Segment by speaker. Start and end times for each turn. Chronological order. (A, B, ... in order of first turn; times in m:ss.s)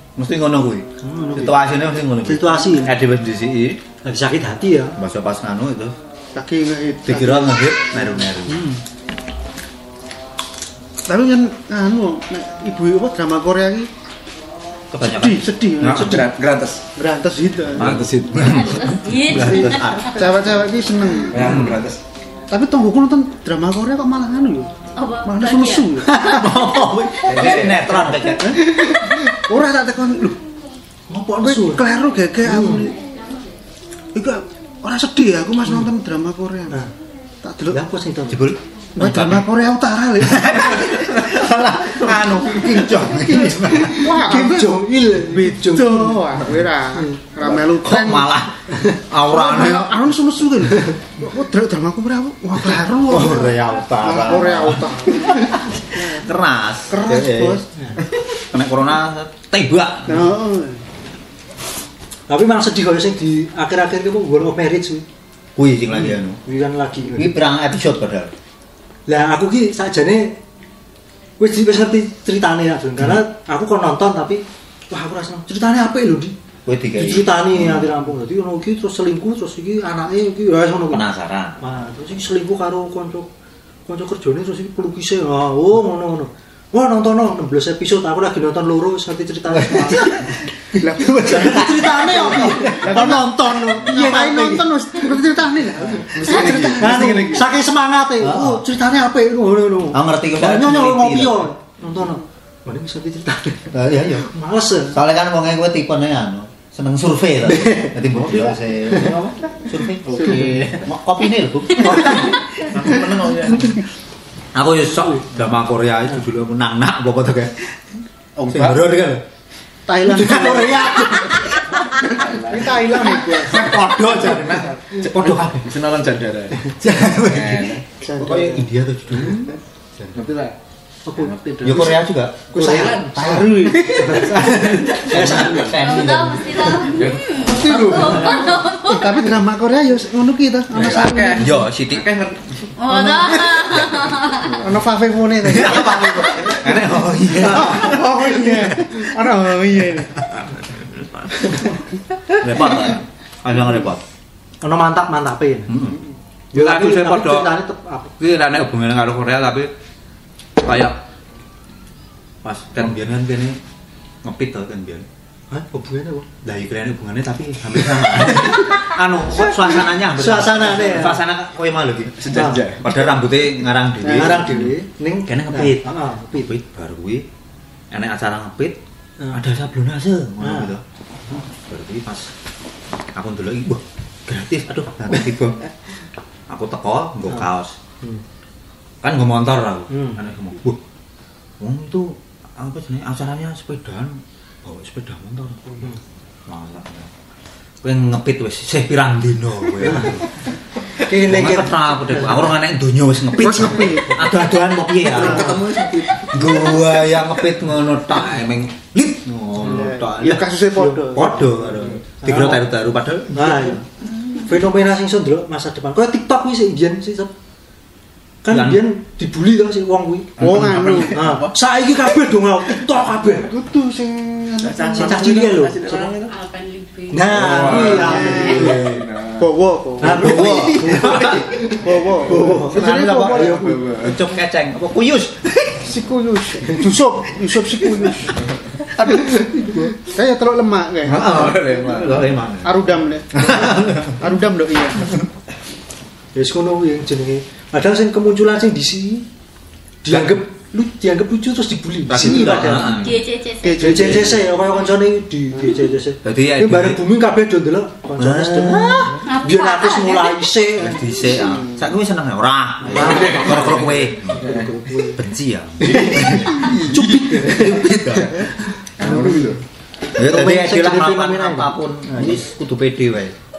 0:00.2-0:03.8 A
0:01.0-0:01.6 B
0:02.2-0:03.0 B
0:04.0-0:05.0 B
0:05.0-0:06.0 A
0:06.3-0:07.7 C
0:07.0-0:08.6 A
0:08.5-0:08.8 B
0:11.1-0:13.9 C
0:14.9-0:16.3 A
0:15.2-0:16.3 C
0:15.9-0:16.8 D
0:17.0-0:18.0 C
0:17.8-0:18.7 D
0:17.8-0:20.3 A
0:18.3-0:20.3 E
0:20.2-0:21.6 C
0:21.3-0:22.0 D
0:21.4-0:21.9 A
0:22.5-0:24.7 C
0:25.0-0:26.5 E
0:25.2-0:26.1 C
0:26.0-0:28.6 A
0:27.2-0:27.9 D
0:28.4-0:30.4 C
0:31.1-0:31.9 B
0:31.4-0:33.0 C
0:32.4-0:32.9 B
0:34.1-0:36.8 C
0:37.4-0:37.8 C
0:37.7-0:38.5 B
0:38.3-0:39.4 A
0:39.0-0:40.6 C
0:40.2-0:44.0 A
0:43.0-0:48.3 C
0:43.5-0:46.4 B
0:46.9-0:47.2 B
0:47.7-0:49.9 A
0:49.3-0:56.2 C
0:53.1-0:57.6 A
0:56.9-0:57.6 C
0:58.2-1:00.2 A
1:00.1-1:00.8 C
1:02.3-1:05.1 B
1:05.6-1:06.4 A
1:05.9-1:07.4 B
1:07.2-1:08.3 A
1:09.1-1:10.4 B
1:11.4-1:16.4 B
1:16.6-1:17.9 A
1:17.0-1:21.1 B
1:20.9-1:21.6 A
1:21.6-1:23.3 B
1:23.9-1:30.2 B
1:29.7-1:30.8 A
1:30.8-1:37.4 C
1:31.2-1:34.7 B
1:31.4-1:32.7 A
1:36.2-1:37.5 D
1:36.2-1:45.0 B
1:38.2-1:38.6 A
1:39.9-1:41.5 A
1:43.7-1:44.3 A
1:44.9-1:53.8 A
1:47.6-1:47.9 B
1:48.9-1:49.2 B
1:50.1-1:50.8 D
1:54.6-1:57.7 A
1:58.4-1:58.9 D
1:58.5-1:59.2 A
1:59.9-2:04.0 C
2:00.0-2:01.2 B
2:00.3-2:01.4 A
2:02.2-2:02.8 D
2:03.4-2:05.7 A
2:04.1-2:07.9 D
2:06.8-2:09.6 A
2:07.9-2:08.7 C
2:10.1-2:10.6 D
2:11.1-2:11.3 B
2:11.1-2:12.0 D
2:11.6-2:13.5 A
2:12.5-2:15.8 B
2:12.6-2:15.7 D
2:13.2-2:13.9 C
2:14.1-2:14.4 A
2:15.1-2:16.7 A
2:15.7-2:19.2 E
2:16.8-2:18.2 D
2:17.4-2:21.6 C
2:20.7-2:22.7 D
2:21.4-2:22.1 A
2:22.8-2:24.5 E
2:24.4-2:24.7 D
2:24.6-2:26.5 C
2:25.4-2:29.0 A
2:27.4-2:30.2 C
2:32.3-2:34.0 A
2:34.6-2:35.7 B
2:35.7-2:36.0 A
2:36.5-2:38.2 B
2:36.5-2:37.5 A
2:38.2-2:39.7 A
2:40.6-2:41.0 A
2:42.4-2:43.6 A
2:44.2-2:45.1 A
2:45.5-2:46.3 B
2:46.4-2:54.7 A
2:48.2-2:48.8 B
2:49.8-2:51.2 B
2:52.2-2:53.0 D
2:52.3-2:52.6 B
2:54.0-2:56.5 B
2:55.3-2:57.3 A
2:57.9-2:58.8 A
2:59.3-3:02.3 A
3:00.4-3:00.7 B
3:03.1-3:05.6 A
3:06.5-3:07.8 A
3:09.0-3:10.8 A
3:09.9-3:10.2 B
3:11.6-3:15.9 A
3:16.5-3:17.1 A
3:17.8-3:20.2 A
3:19.8-3:20.2 B
3:21.0-3:22.5 B
3:21.1-3:30.5 A
3:23.4-3:24.3 C
3:25.1-3:25.6 C
3:25.3-3:26.9 D
3:29.6-3:31.4 C
3:30.8-3:31.2 B
3:31.1-3:33.8 A
3:32.2-3:32.7 B
3:33.3-3:37.3 B
3:38.4-3:40.5 B
3:38.5-3:38.9 A
3:40.4-3:41.6 D
3:40.4-3:41.3 C
3:41.1-3:43.5 B
3:43.4-3:45.2 C
3:44.6-3:46.5 D
3:44.9-3:46.1 B
3:47.1-3:49.0 B
3:47.2-3:49.6 D
3:47.6-3:51.1 C
3:47.6-3:48.7 A
3:50.0-3:53.7 B
3:50.2-3:51.5 A
3:51.1-3:51.8 D
3:51.8-3:53.8 C
3:52.3-3:55.9 A
3:53.3-3:54.2 D
3:55.8-3:58.4 C
3:59.0-3:59.4 A
3:59.2-4:01.4 C
4:01.0-4:02.8 A
4:01.3-4:02.3 D
4:02.6-4:05.2 C
4:03.5-4:04.1 A
4:06.4-4:09.3 B
4:10.0-4:13.1 B
4:10.1-4:10.4 A
4:12.1-4:13.2 A
4:12.8-4:14.0 E
4:13.6-4:14.5 C
4:13.8-4:21.1 B
4:14.0-4:14.3 A
4:16.2-4:17.0 A
4:18.2-4:19.2 A
4:19.2-4:20.5 E
4:20.8-4:24.5 A
4:21.3-4:21.7 C
4:22.8-4:25.2 B
4:22.9-4:24.7 D
4:25.2-4:28.5 A
4:25.8-4:27.7 D
4:25.9-4:28.3 B
4:28.2-4:28.4 D
4:29.0-4:29.6 B
4:29.0-4:29.6 D
4:30.2-4:33.4 A
4:30.2-4:32.4 B